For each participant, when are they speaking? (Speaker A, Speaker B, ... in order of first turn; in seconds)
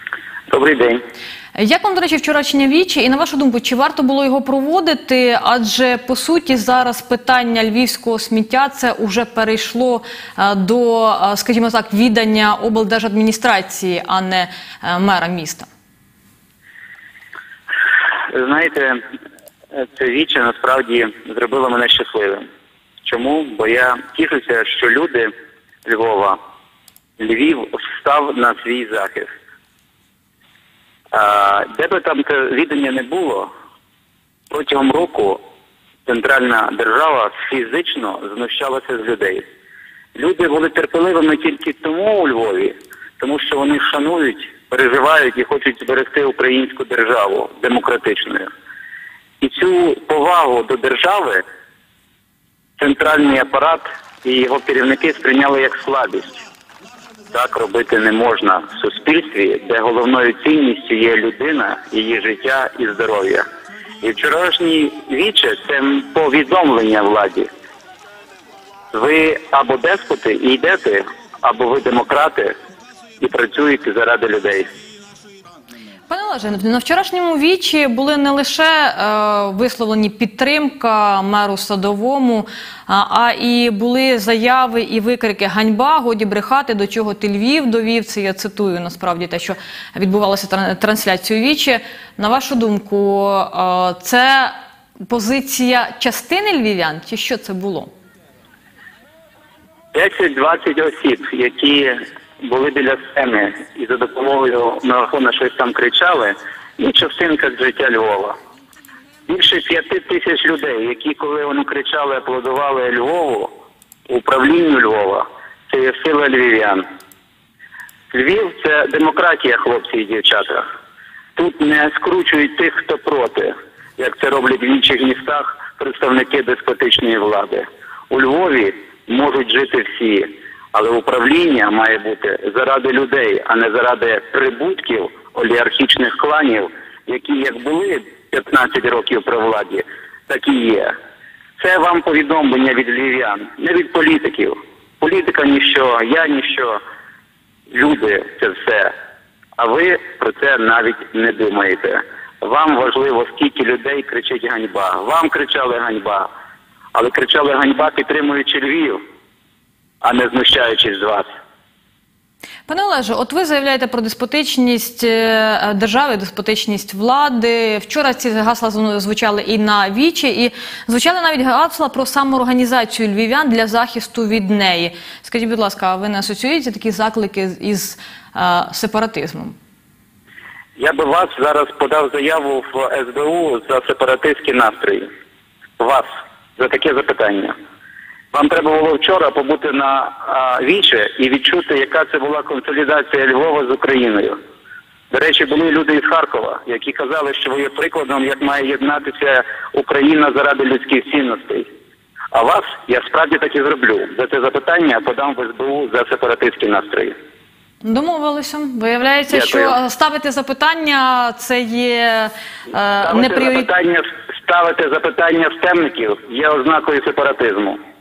Speaker A: 0.5-1.0, 18.3-19.0, 19.7-22.4, 23.0-25.3, 25.8-26.4, 27.2-29.3, 31.1-33.5, 34.5-35.4, 36.0-39.4, 40.1-48.5, 49.4-51.4, 52.8-56.4, 57.3-63.5, 64.0-67.5, 68.9-72.5, 73.2-74.7, 99.9-108.3, 109.3-113.5, 114.1-116.8, 118.1-120.6, 121.3-140.9, 141.6-146.8, 147.7-148.9, 149.6-156.3, 156.9-159.0, 160.0-161.3, 180.8-185.1, 185.8-187.5, 188.3-194.4, 195.1-201.7, 202.3-207.1, 209.3-209.8, 213.0-217.8
Speaker B: 1.6-15.7, 76.1-94.5, 95.1-97.9, 162.7-179.5, 207.8-213.7